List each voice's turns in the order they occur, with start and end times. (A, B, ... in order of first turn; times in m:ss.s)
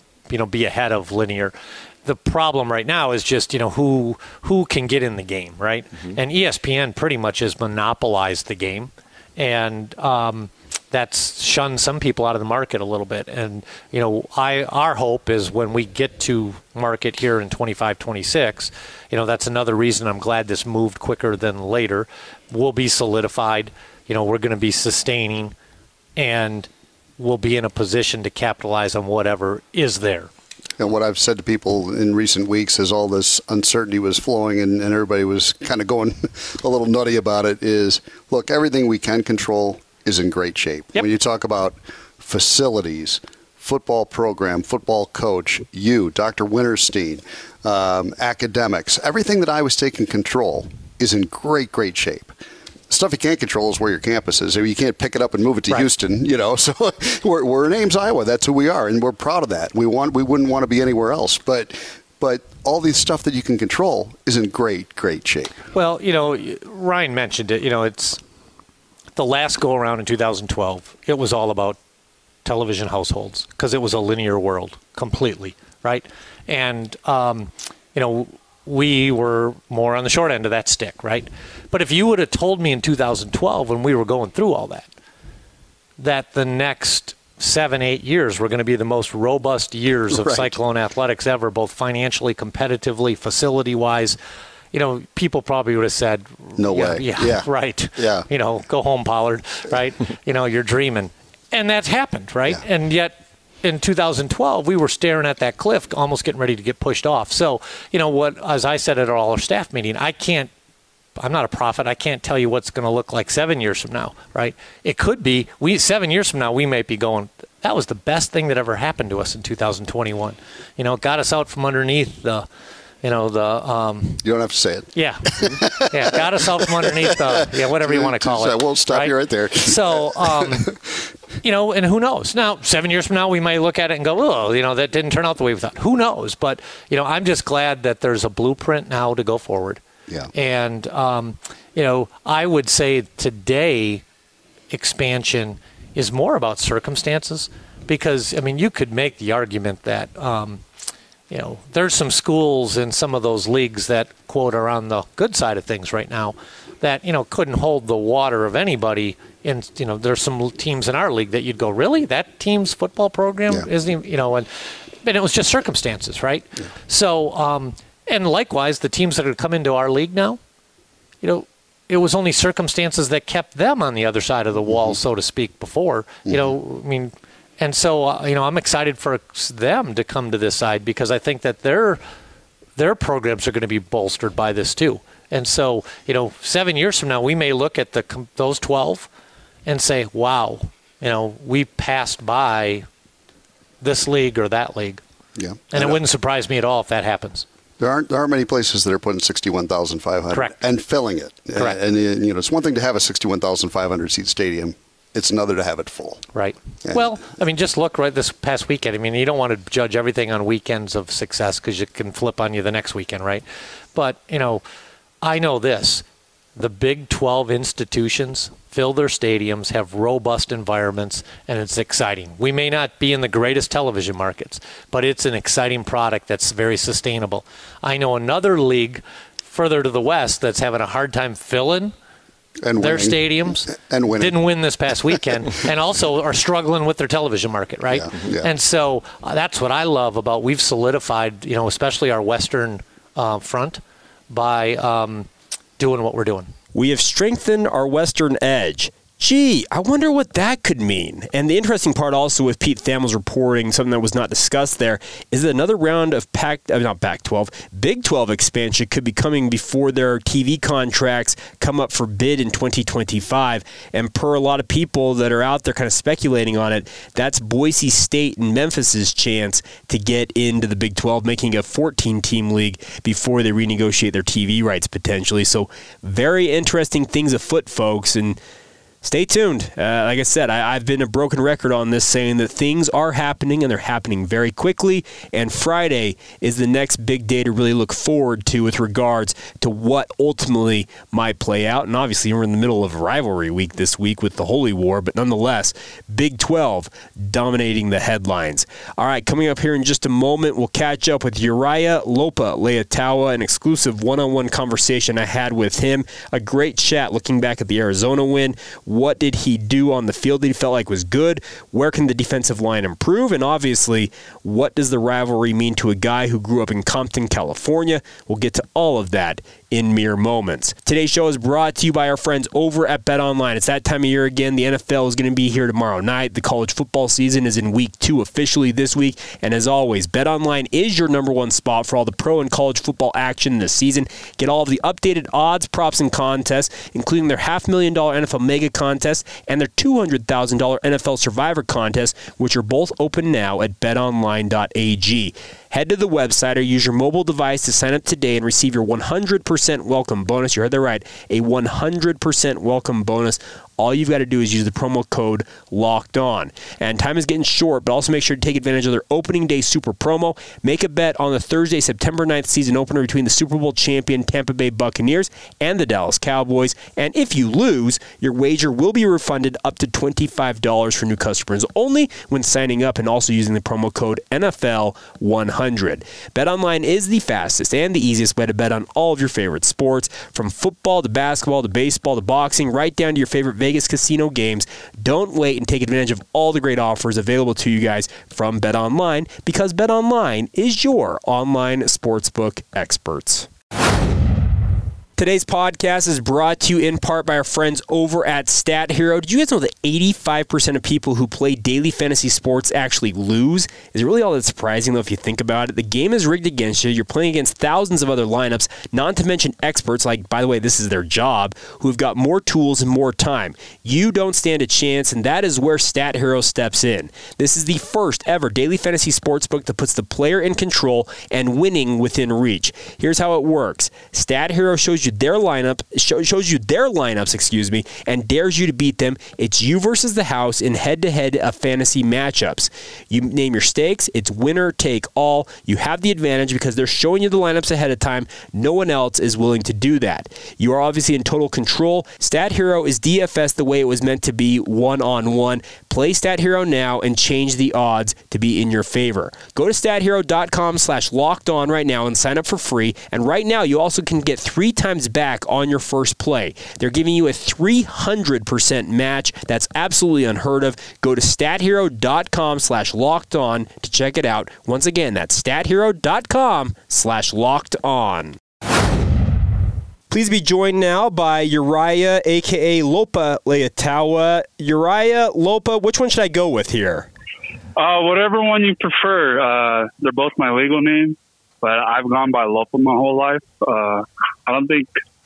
0:00.3-0:25.5 A
0:26.2-0:30.3 A
0:30.8-0:52.3 B
0:52.9-1:05.6 B
1:05.7-1:08.2 A
1:09.2-1:11.8 A
1:12.4-1:24.9 A
1:26.0-1:34.2 A
1:30.1-1:30.5 B
1:34.7-1:50.5 A
1:36.6-1:38.3 B
1:51.2-2:02.5 A
2:03.0-2:04.2 A
2:04.2-2:06.0 B
2:04.9-2:10.7 A
2:07.7-2:10.7 B
2:11.4-2:19.8 A
2:20.3-2:24.0 A
2:24.7-2:30.6 A
2:31.3-2:50.4 A
2:51.2-3:02.0 A
2:56.3-2:56.5 B
3:02.8-3:09.1 A
3:09.6-3:12.9 A
3:13.8-3:15.0 A
3:15.4-3:16.0 B
3:15.7-3:17.4 A
3:17.8-3:26.2 B
3:20.3-3:20.6 A
3:26.3-3:34.6 A
3:35.2-3:36.0 A
3:36.6-3:51.9 A
3:52.6-3:54.4 B
3:52.8-4:06.5 A
3:57.9-3:58.5 B
4:06.7-4:38.4 C
4:39.0-6:33.5 C
6:35.2-7:48.4 C
7:50.1-7:57.1 C
7:57.8-8:04.9 D